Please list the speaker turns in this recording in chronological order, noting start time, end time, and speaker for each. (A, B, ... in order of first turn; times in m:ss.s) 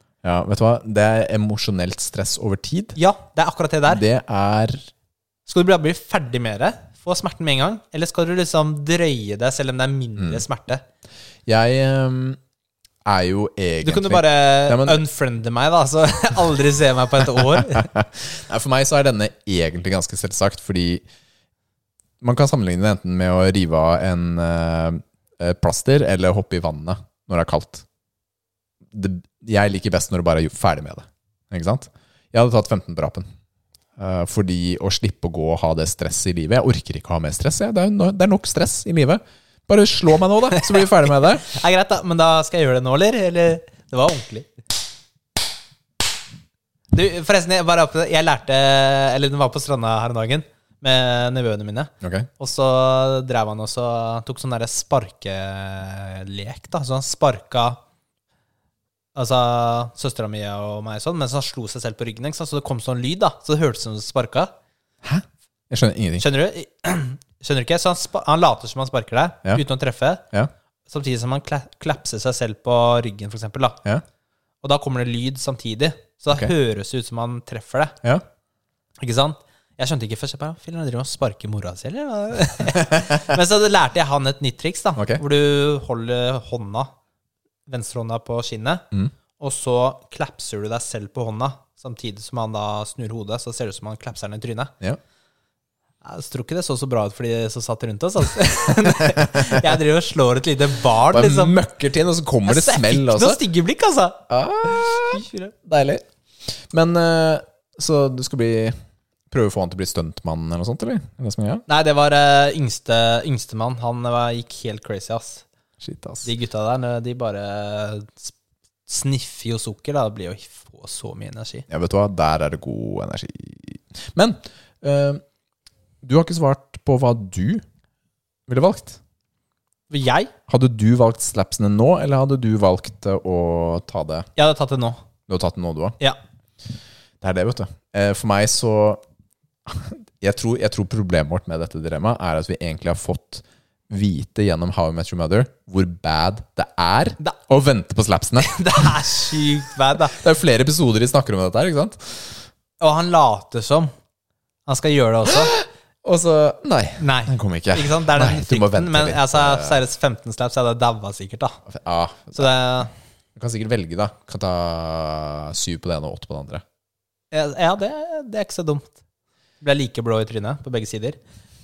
0:00.2-0:03.0 A
0:03.0-0:04.0 B
0:03.9-0:04.9 A
0:05.5-0:10.8 B
0:11.4-0:12.4 A
0:13.0-0:15.0 A
0:13.8-0:17.9 B
0:17.6-0:21.0 A
0:22.2-0:27.8 A
0:28.9-0:33.2 A
0:34.0-0:41.5 A
0:40.5-0:44.5 B
0:46.9-0:57.8 B
0:52.0-0:52.3 A
0:59.1-1:04.5 B
1:05.0-1:06.2 A
1:06.2-1:10.2 B
1:10.9-1:13.8 B
1:14.6-1:18.0 B
1:19.0-1:26.9 B
1:25.0-1:25.2 A
1:27.7-1:28.8 B
1:29.4-1:34.7 B
1:36.0-1:41.6 B
1:38.8-1:39.6 A
1:41.1-1:43.4 A
1:42.4-1:45.5 B
1:44.3-1:48.7 A
1:49.3-1:51.6 A
1:51.7-1:55.4 B
1:55.8-1:56.3 A
1:56.2-1:58.3 B
1:58.9-2:01.6 B
2:01.7-2:05.2 A
2:06.0-2:07.6 A
2:08.5-2:09.0 A
2:09.9-2:10.3 B
2:10.5-2:14.3 A
2:14.4-2:15.0 B
2:15.3-2:16.0 A
2:17.2-2:19.0 A
2:19.6-2:29.0 A
2:28.4-2:30.2 B
2:30.0-2:32.4 A
2:32.8-2:33.9 B
2:34.6-2:35.6 B
2:35.3-2:39.8 A
2:37.0-2:41.6 B
2:41.7-2:42.5 A
2:42.3-2:42.9 B
2:43.4-2:46.6 A
2:47.3-2:49.0 B
2:49.6-2:51.2 B